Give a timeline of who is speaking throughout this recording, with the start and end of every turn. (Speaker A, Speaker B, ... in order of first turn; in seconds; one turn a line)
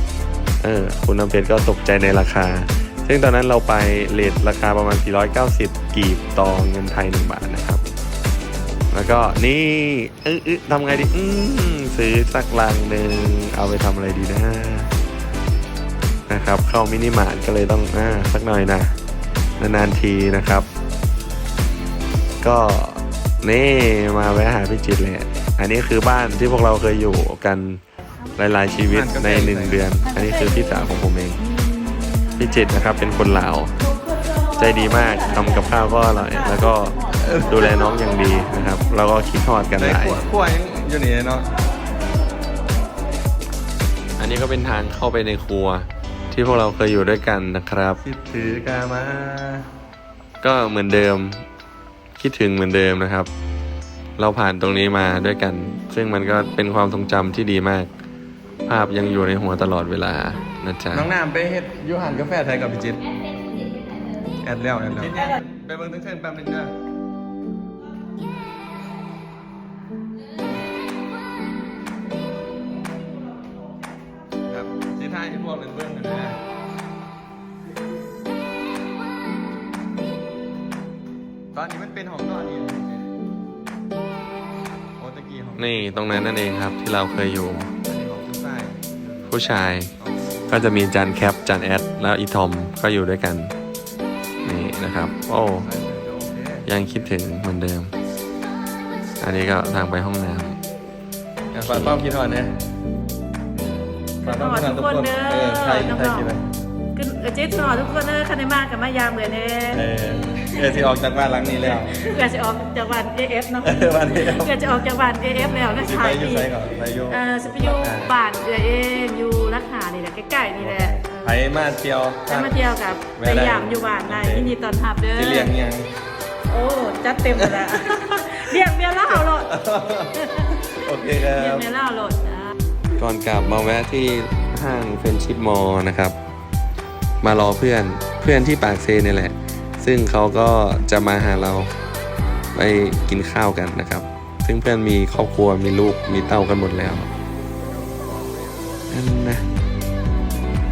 Speaker A: 0.6-7.8
Speaker A: 8.9-14.9
Speaker A: 16.3-18.9
Speaker A: 19.6-20.7
Speaker A: 22.4-27.8
Speaker A: 28.4-31.4
Speaker B: 28.9-29.8
Speaker A: 32.3-33.7
Speaker A: 34.6-40.2
Speaker B: 37.1-37.6
Speaker B: 39.8-41.5
Speaker A: 44.2-48.0
Speaker B: 48.0-49.7
Speaker A: 50.4-51.4
Speaker A: 52.2-53.3
Speaker A: 54.2-57.9
Speaker A: 58.7-61.1
Speaker B: 60.9-63.0
Speaker B: 64.4-66.7
Speaker B: 74.5-76.4
Speaker B: 81.5-83.1
Speaker B: 85.0-86.1
Speaker A: 85.5-87.7
Speaker B: 87.8-89.3
Speaker A: 89.3-89.9
Speaker B: 90.0-90.5
Speaker A: 90.5-93.5
Speaker A: 94.4-95.7
Speaker B: 95.6-96.6
Speaker A: 96.7-97.9
Speaker A: 99.2-100.6
Speaker B: 101.5-102.6
Speaker A: 101.6-102.0
Speaker C: 104.2-106.3
Speaker B: 104.2-106.4
Speaker C: 106.9-110.8
Speaker B: 109.7-112.0
Speaker C: 111.6-116.5
Speaker B: 113.6-114.5
Speaker B: 115.8-118.1
Speaker C: 117.1-121.4
Speaker B: 120.6-122.5
Speaker C: 122.2-125.5
Speaker B: 123.2-124.5
Speaker B: 125.1-125.9
Speaker C: 126.5-129.5
Speaker B: 127.4-128.0
Speaker B: 129.1-130.1
Speaker C: 130.2-132.5
Speaker B: 130.7-131.7
Speaker A: 133.0-136.2
Speaker A: 137.2-141.7
Speaker A: 142.5-147.1
Speaker B: 148.1-148.6
Speaker A: 148.9-149.4